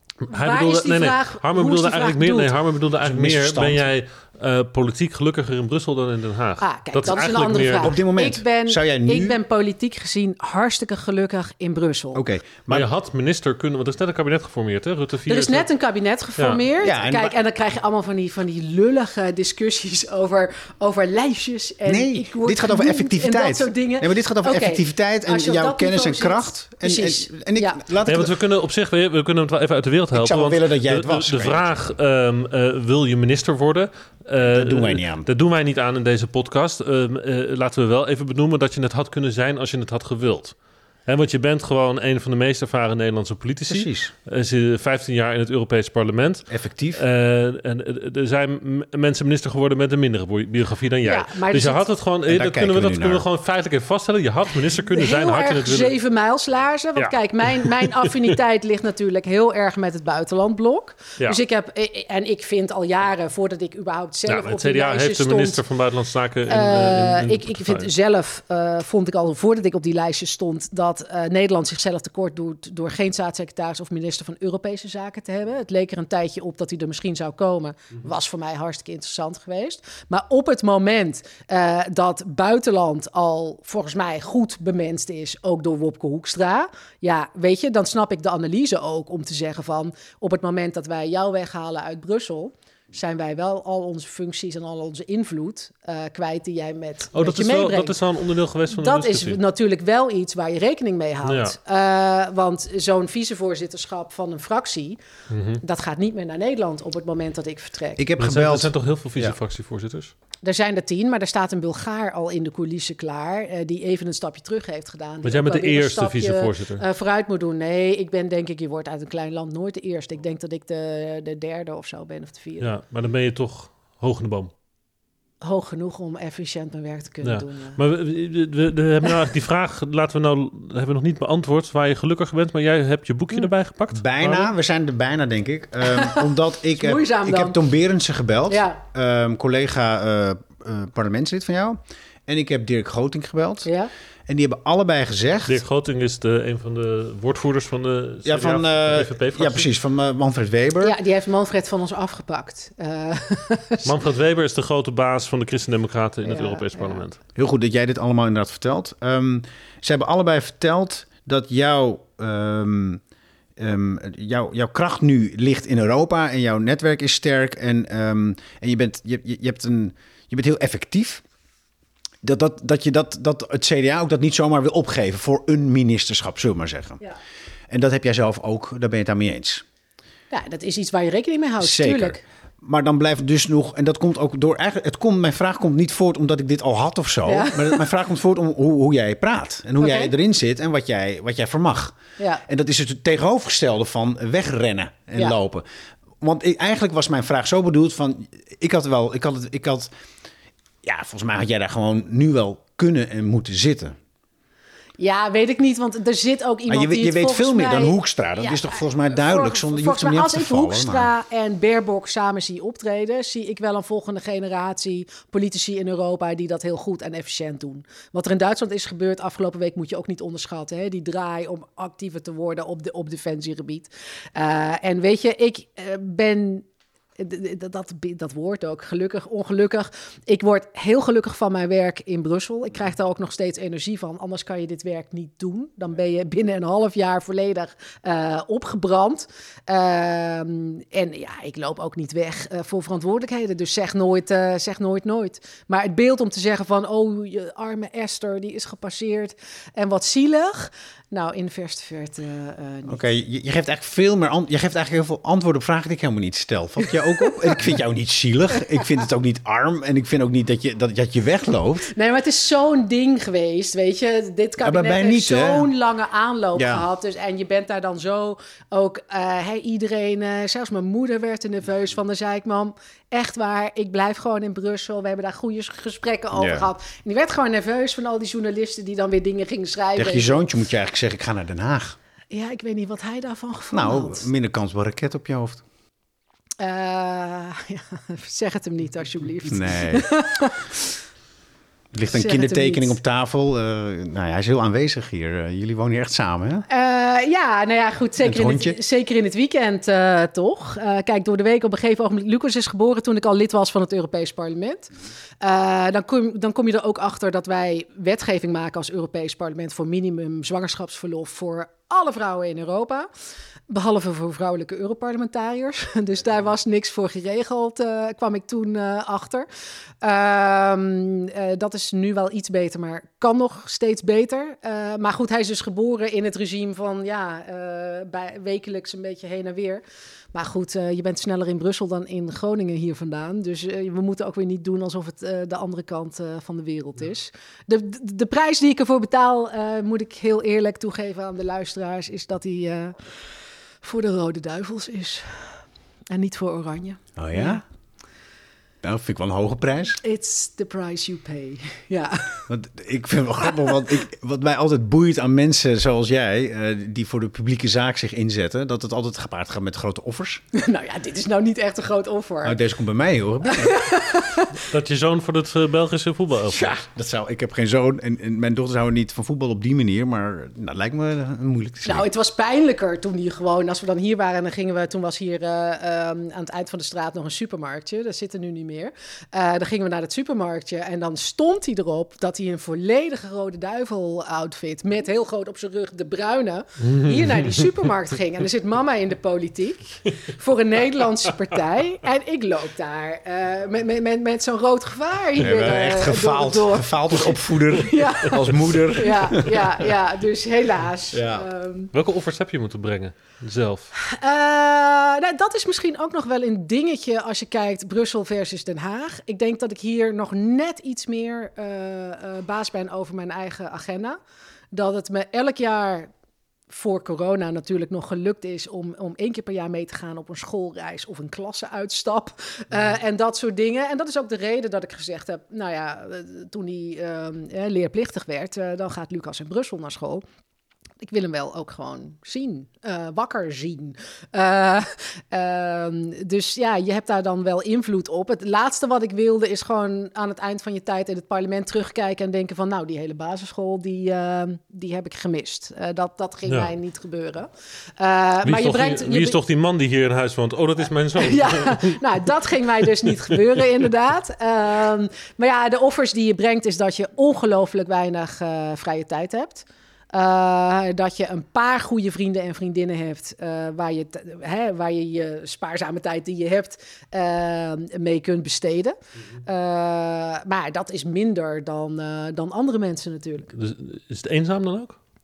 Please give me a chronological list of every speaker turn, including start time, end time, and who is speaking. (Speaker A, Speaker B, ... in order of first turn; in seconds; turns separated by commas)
Speaker A: 0.3-7.9, Speaker B: 0.3-2.5, Speaker C: 3.0-3.9, Speaker B: 6.6-12.2, Speaker C: 7.8-9.4, Speaker C: 12.1-12.9, Speaker A: 12.7-15.7, Speaker B: 15.3-27.8, Speaker C: 16.8-17.3, Speaker C: 21.9-28.3, Speaker A: 28.0-55.9, Speaker C: 30.1-31.7, Speaker C: 34.4-35.3, Speaker C: 43.7-44.1, Speaker C: 46.5-47.0, Speaker B: 51.0-51.8, Speaker C: 52.3-53.2, Speaker B: 54.9-65.6, Speaker A: 57.0-58.2, Speaker A: 64.3-67.9, Speaker B: 66.5-98.0, Speaker A: 97.1-99.4, Speaker B: 98.7-105.0, Speaker A: 101.2-101.5, Speaker A: 105.3-105.6, Speaker B: 105.6-108.0, Speaker C: 108.0-109.3, Speaker A: 108.2-110.1, Speaker B: 110.4-122.7, Speaker A: 115.2-116.8, Speaker A: 122.6-124.5, Speaker B: 125.4-127.8, Speaker A: 127.2-134.5, Speaker C: 133.9-143.7, Speaker B: 135.9-137.6, Speaker B: 138.5-138.8, Speaker B: 143.7-143.9, Speaker C: 144.3-145.6, Speaker A: 145.5-149.7, Speaker C: 148.2-150.9, Speaker B: 150.8-153.9, Speaker A: 153.8-157.2, Speaker B: 156.2-157.0, Speaker C: 157.3-163.0, Speaker C: 163.6-171.2, Speaker C: 172.2-177.0, Speaker C: 177.7-179.6, Speaker B: 180.3-182.2, Speaker C: 181.6-195.6, Speaker B: 187.2-187.8, Speaker B: 189.8-190.1, Speaker B: 192.2-192.4, Speaker C: 196.2-199.9, Speaker C: 200.8-204.0, Speaker B: 205.0-226.7, Speaker C: 206.7-211.1, Speaker B: 227.2-253.0, Speaker C: 252.9-261.9, Speaker B: 261.9-280.4, Speaker C: 264.6-265.7, Speaker C: 266.5-266.8, Speaker C: 276.3-276.7, Speaker C: 279.9-282.0, Speaker B: 282.3-284.3, Speaker C: 283.7-285.6, Speaker B: 286.6-290.9, Speaker C: 289.5-290.1, Speaker C: 291.9-296.6, Speaker B: 292.1-293.0, Speaker B: 296.7-313.1, Speaker C: 298.2-298.8, Speaker B: 313.7-319.5, Speaker B: 320.0-329.8, Speaker B: 330.3-343.0, Speaker B: 343.8-345.6, Speaker B: 346.1-347.6, Speaker C: 347.2-347.6, Speaker C: 348.8-350.0, Speaker B: 350.0-352.4, Speaker C: 352.5-360.4, Speaker B: 360.5-362.6, Speaker C: 362.4-363.8, Speaker B: 363.5-364.5, Speaker A: 364.6-366.8, Speaker C: 366.4-372.1, Speaker B: 371.8-401.9, Speaker A: 386.8-387.5, Speaker C: 395.4-399.6, Speaker C: 401.1-401.5, Speaker A: 401.9-403.9, Speaker B: 404.0-414.2, Speaker B: 414.7-416.1, Speaker B: 416.7-430.2, Speaker B: 431.0-449.4, Speaker A: 448.4-452.0, Speaker B: 451.2-473.5, Speaker A: 473.5-475.0